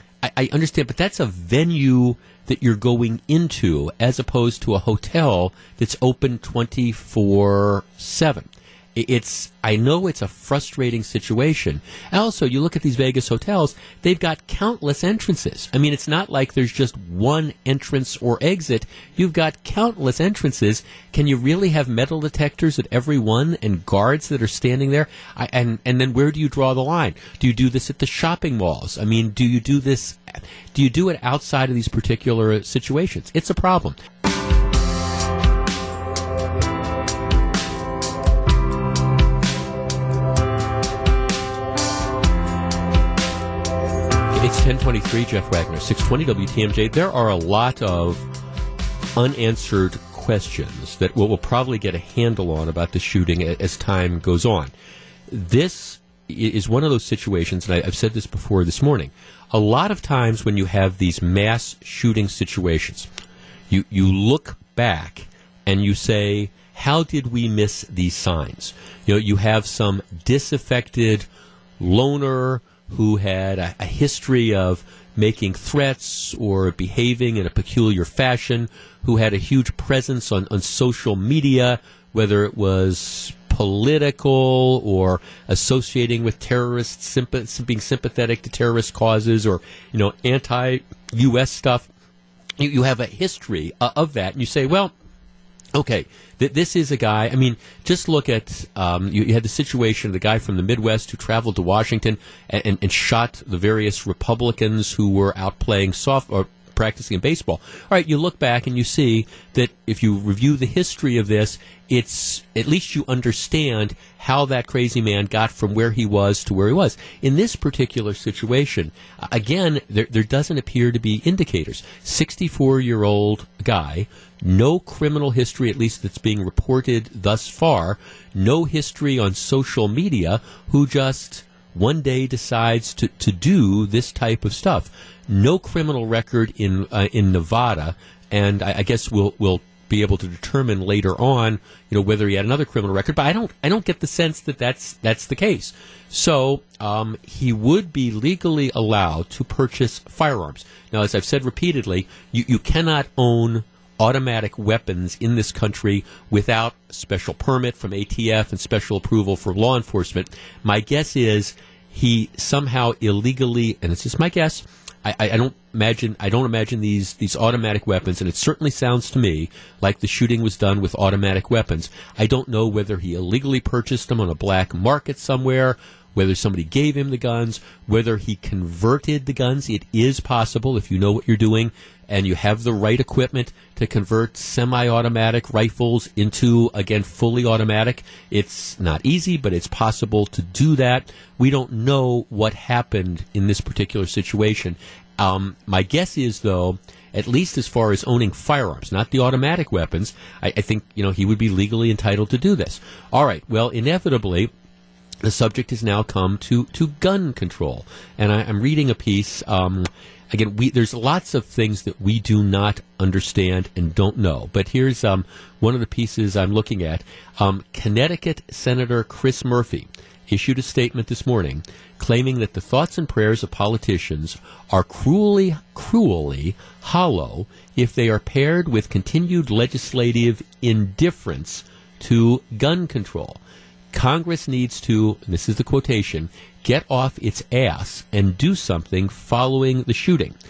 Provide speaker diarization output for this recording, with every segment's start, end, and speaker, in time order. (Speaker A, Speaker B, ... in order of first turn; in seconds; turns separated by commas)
Speaker A: 0.2-34.0, Speaker A: 44.3-48.2, Speaker A: 49.1-54.7, Speaker A: 55.3-63.1, Speaker A: 63.7-71.3, Speaker A: 71.8-91.9, Speaker A: 92.6-94.9, Speaker A: 95.7-204.5, Speaker A: 205.2-233.4, Speaker A: 233.9-240.3